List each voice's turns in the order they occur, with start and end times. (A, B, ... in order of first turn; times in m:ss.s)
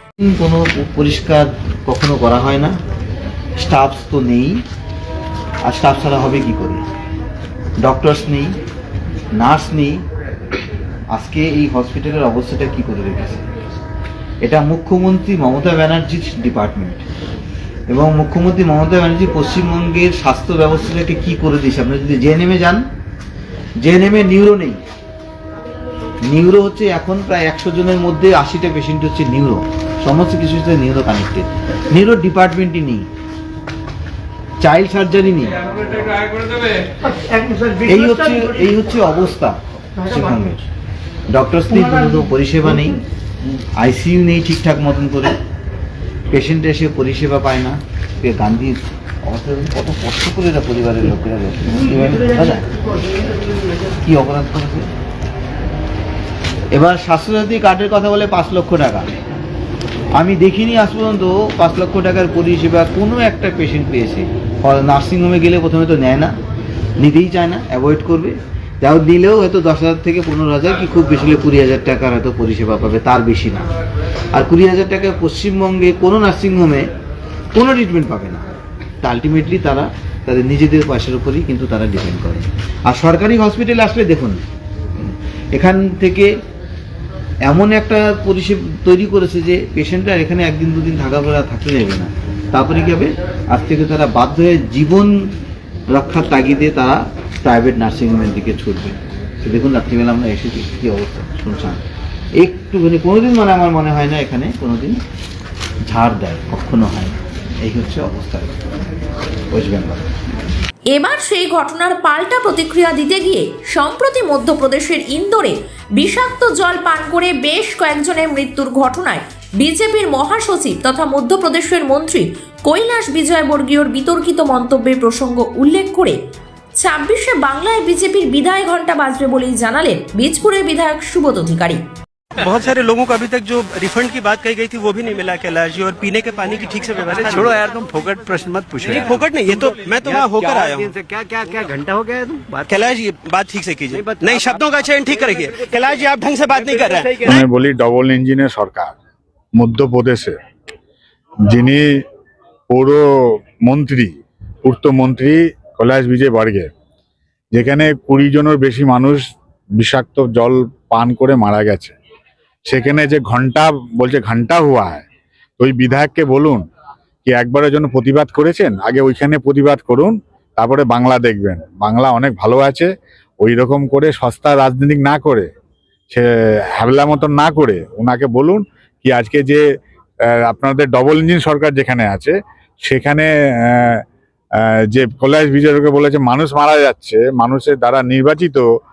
0:00.2-0:02.7 A
0:03.6-0:04.6 A
0:05.6-0:06.8 A
0:07.8-0:08.5 A
0:09.3-0:10.0 A
0:11.1-0:13.4 A
0:14.4-0:17.0 A
0:17.9-0:22.8 A
0:23.8-0:24.8 A
0:26.3-0:33.0 A
0:34.6-0:36.2 A
0:37.7-0:40.6 A
0:41.3-0:43.0 A
0:43.8-0:45.4 A
0:46.3-0:52.6 A
0:54.0-0:54.9 A
0:56.7-0:59.1 A
1:00.1-1:06.3 A
1:07.0-1:13.7 A
1:14.3-1:16.9 A
1:17.5-1:18.4 A
1:19.0-1:24.4 A
1:25.0-1:26.3 A
1:27.4-1:35.2 A
1:35.9-1:41.8 A
1:42.4-1:45.0 A
1:45.9-1:48.6 A
1:49.5-1:50.1 A
1:50.9-2:06.2 B
2:06.8-2:11.8 B
2:12.4-2:17.6 C
2:17.5-2:18.7 D
2:18.8-2:20.9 C
2:21.2-2:22.5 D
2:22.7-2:27.4 C
2:27.2-2:28.9 E
2:29.6-2:30.4 E
2:31.4-2:31.8 E
2:32.7-2:33.0 E
2:33.6-2:34.1 E
2:34.6-2:36.7 E
2:37.5-2:41.9 E
2:42.6-2:45.0 E
2:45.6-2:46.6 E
2:47.2-2:52.9 E
2:53.4-2:55.5 E
2:56.8-2:59.6 E
3:00.5-3:02.3 E
3:02.8-3:04.0 E
3:04.9-3:08.6 E